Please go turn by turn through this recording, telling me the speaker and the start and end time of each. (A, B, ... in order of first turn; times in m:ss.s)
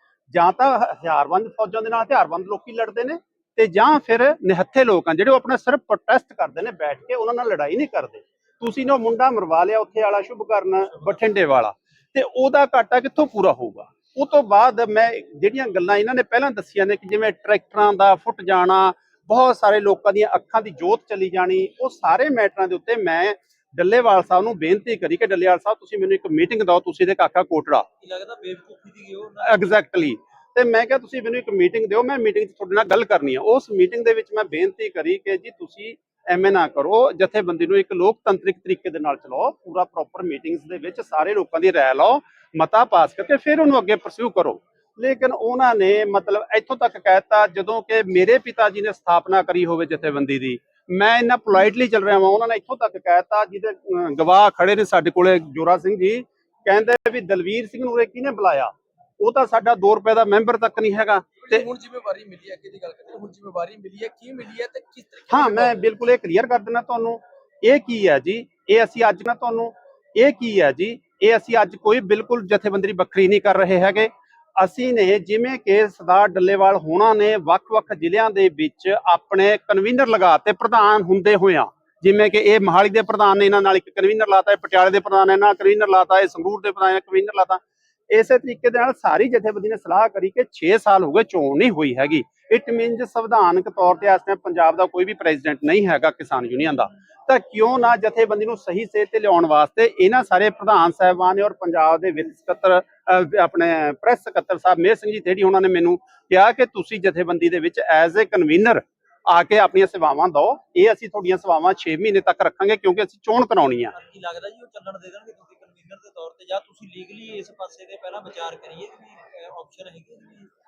0:00.3-0:27.8 A
0:28.0-0:29.8 B
0:29.4-1:01.6 A
1:01.4-1:05.8 C
1:05.3-1:53.9 A
1:53.9-2:00.5 B